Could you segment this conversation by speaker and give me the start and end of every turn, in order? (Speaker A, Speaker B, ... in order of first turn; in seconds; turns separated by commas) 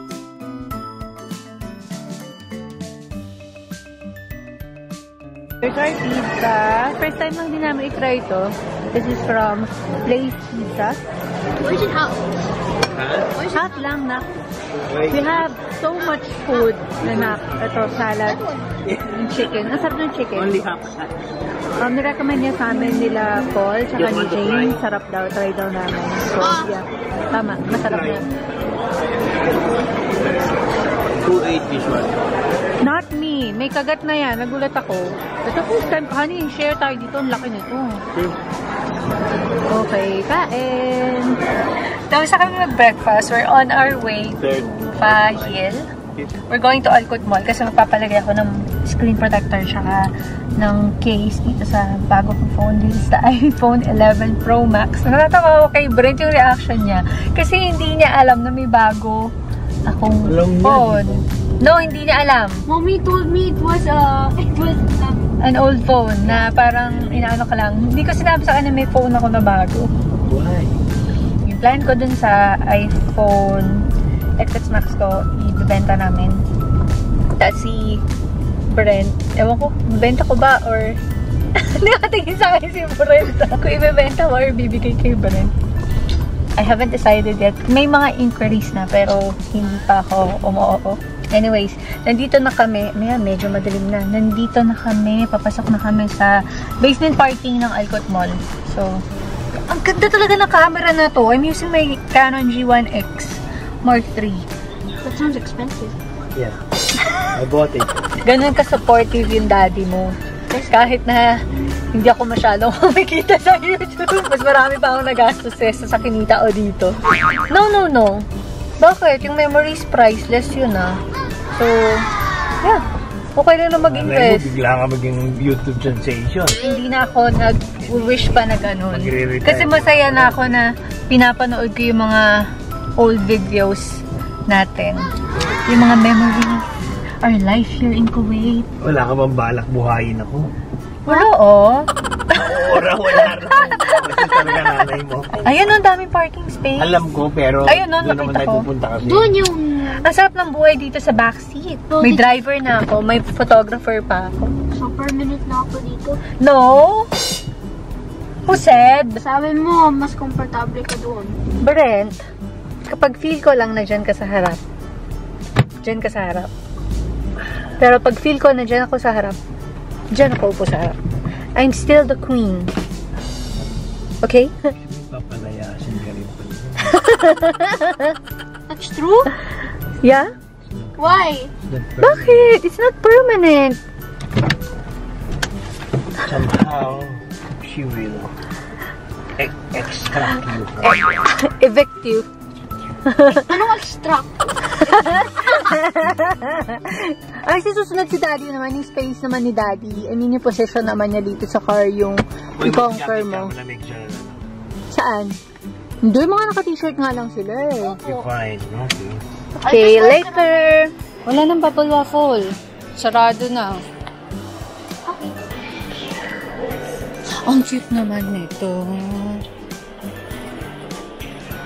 Speaker A: 5.6-11.0, Speaker B: 11.6-12.3, Speaker C: 12.9-13.3, Speaker B: 13.3-13.8, Speaker A: 13.5-14.3, Speaker C: 14.9-15.4, Speaker A: 15.1-18.4, Speaker C: 17.1-17.4, Speaker B: 18.2-18.7, Speaker C: 18.9-19.4, Speaker A: 19.0-20.6, Speaker C: 20.4-21.2, Speaker A: 21.8-28.3, Speaker C: 24.0-24.8, Speaker B: 26.4-26.7, Speaker C: 31.2-32.1, Speaker A: 32.8-38.0, Speaker A: 39.7-45.9, Speaker C: 44.4-44.8, Speaker A: 46.5-59.3, Speaker A: 59.9-62.6, Speaker C: 60.2-61.3, Speaker B: 62.7-65.3, Speaker A: 65.4-69.9, Speaker C: 70.2-70.8, Speaker A: 71.4-76.5, Speaker A: 77.3-78.0, Speaker A: 78.7-81.0, Speaker A: 81.6-85.5, Speaker A: 86.6-99.0, Speaker A: 99.6-104.5, Speaker B: 105.0-106.0, Speaker C: 106.3-106.6, Speaker C: 107.3-107.9, Speaker A: 108.2-110.2, Speaker B: 110.5-110.9, Speaker A: 110.7-118.3, Speaker A: 118.8-121.0, Speaker A: 121.5-122.1, Speaker A: 122.6-124.5, Speaker C: 123.8-126.6, Speaker A: 126.6-135.1, Speaker C: 127.8-130.6, Speaker A: 135.7-136.7, Speaker A: 137.2-138.7, Speaker C: 138.8-140.5, Speaker A: 141.1-144.4, Speaker C: 142.3-145.4, Speaker A: 145.3-147.0, Speaker C: 146.8-149.5, Speaker A: 147.7-148.7, Speaker B: 149.0-150.1, Speaker A: 149.8-154.6, Speaker B: 151.9-152.2, Speaker B: 154.7-156.2, Speaker A: 156.4-157.1, Speaker A: 158.4-159.2, Speaker B: 159.2-161.4, Speaker A: 161.6-162.2, Speaker A: 162.8-164.6, Speaker A: 165.8-166.5, Speaker A: 167.8-169.4, Speaker A: 170.1-171.0, Speaker A: 171.6-172.7, Speaker A: 174.2-174.7, Speaker C: 174.8-177.0, Speaker A: 176.8-178.2, Speaker B: 178.8-179.3, Speaker A: 180.0-180.3, Speaker C: 180.7-182.5, Speaker B: 181.0-181.5, Speaker A: 182.0-183.8, Speaker C: 186.2-188.3, Speaker C: 189.4-191.0, Speaker A: 190.1-192.3, Speaker A: 193.0-193.6, Speaker B: 193.4-194.4, Speaker A: 194.7-203.5, Speaker C: 202.6-204.5, Speaker A: 204.9-205.4, Speaker A: 206.0-208.1, Speaker B: 207.8-208.3, Speaker C: 208.0-209.2, Speaker B: 209.6-210.7, Speaker A: 209.6-213.8, Speaker B: 215.1-215.3, Speaker A: 217.3-219.4